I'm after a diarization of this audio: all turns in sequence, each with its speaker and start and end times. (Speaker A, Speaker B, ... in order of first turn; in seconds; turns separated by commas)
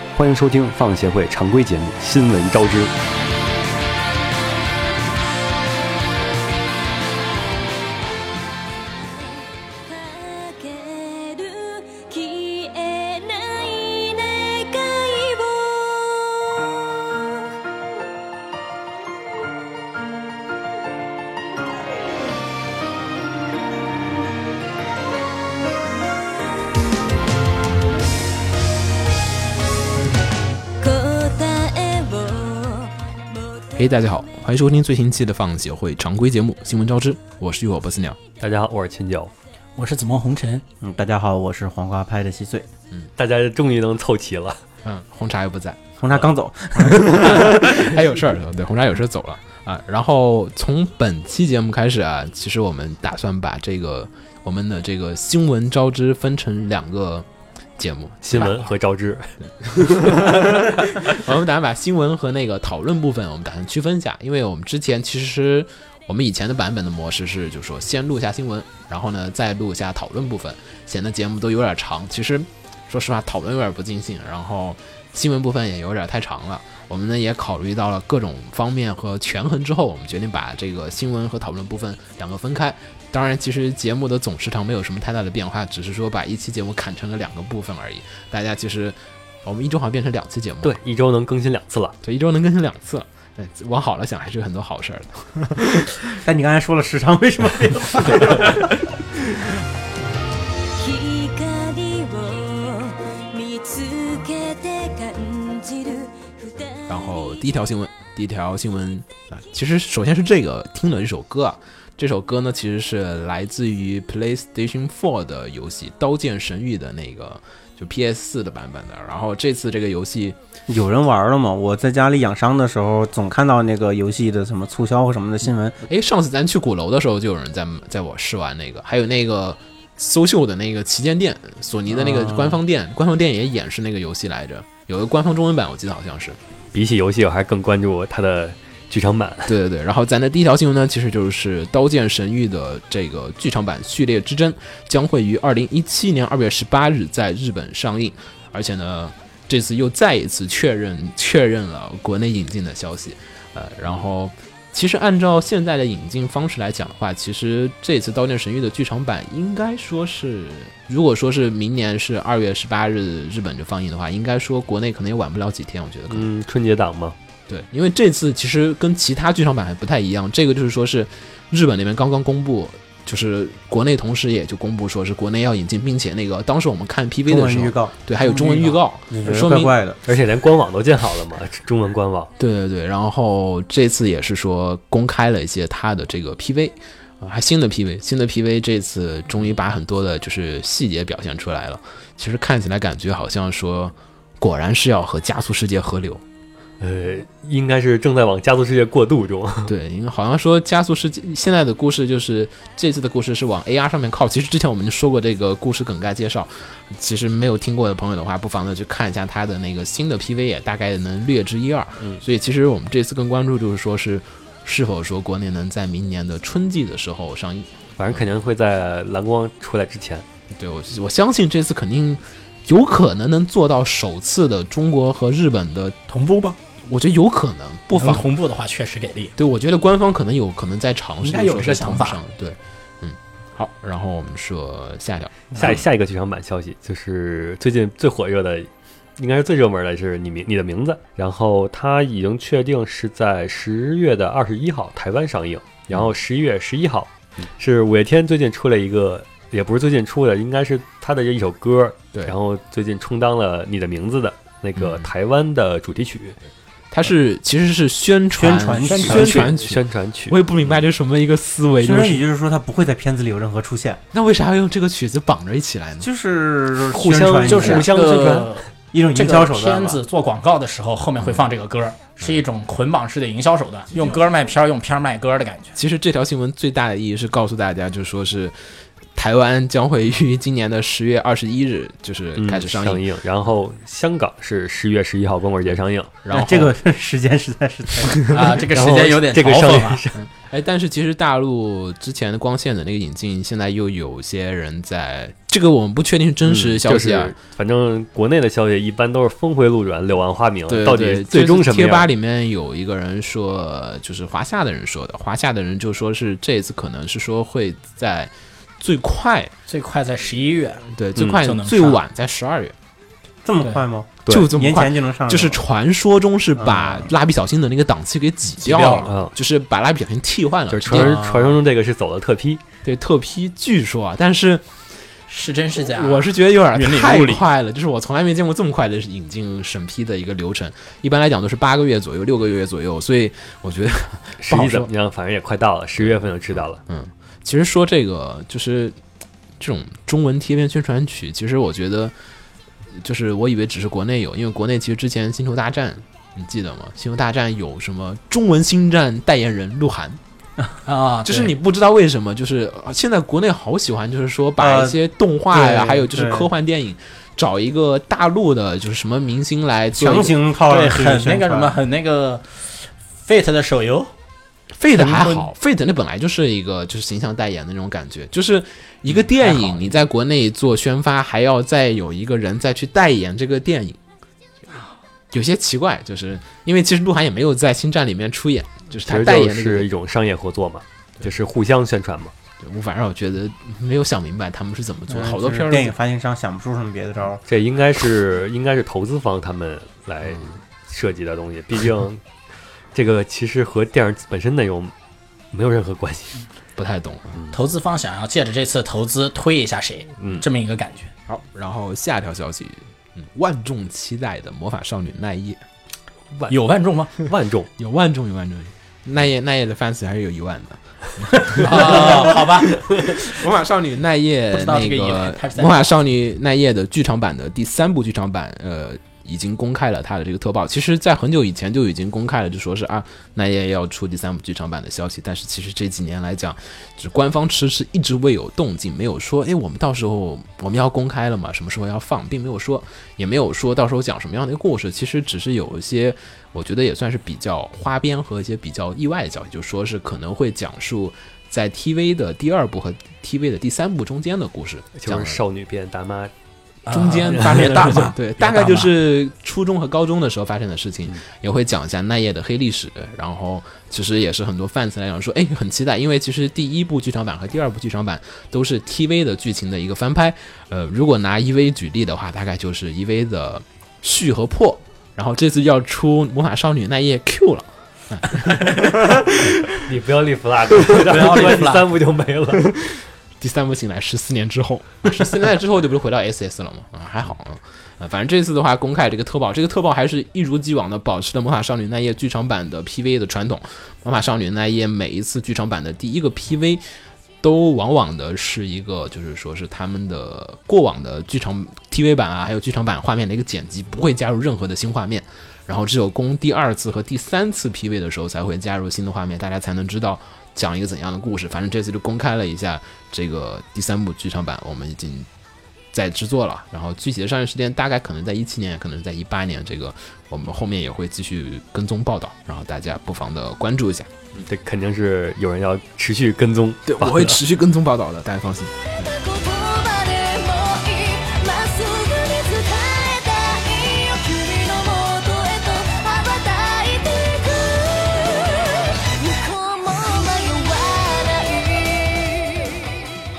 Speaker A: 0.1-2.9, Speaker B: 9.9-16.6, Speaker B: 30.8-32.9, Speaker C: 33.8-38.2, Speaker A: 38.4-39.3, Speaker D: 39.8-40.6, Speaker E: 40.8-42.7, Speaker A: 43.2-44.6, Speaker C: 44.8-45.8, Speaker E: 46.0-47.9, Speaker C: 46.8-57.3, Speaker C: 57.8-58.7, Speaker A: 58.2-60.6, Speaker C: 59.5-90.8, Speaker A: 90.6-92.0, Speaker C: 92.0-96.0, Speaker E: 96.2-98.7, Speaker B: 100.8-106.9, Speaker C: 106.9-120.4, Speaker E: 120.7-125.8, Speaker C: 125.9-136.4, Speaker E: 131.9-132.6, Speaker A: 136.7-139.6, Speaker C: 139.5-166.3, Speaker A: 166.1-167.2, Speaker C: 167.5-179.8, Speaker E: 177.3-180.0, Speaker A: 180.1-182.3, Speaker C: 182.4-196.2, Speaker A: 196.8-199.7, Speaker C: 199.7-218.2, Speaker A: 218.0-220.2, Speaker C: 220.5-226.0, Speaker D: 226.1-226.6, Speaker C: 226.8-228.2, Speaker D: 227.9-229.3, Speaker C: 229.4-235.8, Speaker D: 231.2-232.2, Speaker A: 235.6-256.4, Speaker C: 254.8-255.1, Speaker C: 256.9-262.2, Speaker E: 258.3-259.5, Speaker A: 258.9-260.8, Speaker E: 261.8-264.0, Speaker C: 264.1-266.1, Speaker E: 266.0-267.9, Speaker A: 266.9-268.5, Speaker D: 267.4-275.8, Speaker E: 268.9-270.0, Speaker C: 275.7-278.6, Speaker C: 279.2-283.1, Speaker A: 282.4-286.1, Speaker C: 286.2-286.7, Speaker E: 286.3-288.4, Speaker D: 288.3-290.0, Speaker A: 288.7-290.2, Speaker C: 290.1-297.4, Speaker A: 296.4-302.1, Speaker C: 300.7-309.5, Speaker D: 309.7-310.9, Speaker C: 310.9-312.8, Speaker A: 311.2-311.4, Speaker D: 311.4-312.0, Speaker E: 313.4-315.6, Speaker C: 314.3-321.2, Speaker E: 316.6-317.1, Speaker D: 318.6-319.1, Speaker A: 319.0-319.3, Speaker A: 320.7-322.6, Speaker E: 320.9-321.6, Speaker C: 322.8-324.9, Speaker D: 325.3-327.4, Speaker C: 325.8-334.9, Speaker A: 334.4-336.8, Speaker C: 336.9-339.0, Speaker C: 339.6-342.1, Speaker C: 342.9-350.2, Speaker D: 350.9-351.5, Speaker C: 351.2-360.4, Speaker E: 354.6-356.5, Speaker E: 359.9-361.8, Speaker D: 360.7-364.1, Speaker C: 364.7-374.0, Speaker D: 364.9-365.5, Speaker D: 369.4-369.9, Speaker C: 375.3-379.9, Speaker A: 379.0-382.3, Speaker C: 382.6-385.9, Speaker E: 385.1-387.4, Speaker A: 387.4-392.2, Speaker A: 392.9-394.9, Speaker A: 395.5-396.4, Speaker C: 396.8-397.4, Speaker D: 397.5-401.1, Speaker A: 400.2-400.4, Speaker C: 401.3-405.6, Speaker D: 406.5-407.1, Speaker A: 407.2-407.7, Speaker C: 407.8-445.4, Speaker D: 411.6-413.4, Speaker D: 414.5-416.0, Speaker A: 445.0-446.3, Speaker D: 446.9-448.9, Speaker C: 446.9-469.6, Speaker A: 447.3-448.0, Speaker A: 469.8-472.6, Speaker D: 470.9-471.9, Speaker C: 472.8-486.8, Speaker C: 487.4-505.3, Speaker C: 505.9-514.1, Speaker A: 514.3-517.4, Speaker C: 516.9-519.1, Speaker B: 519.0-532.9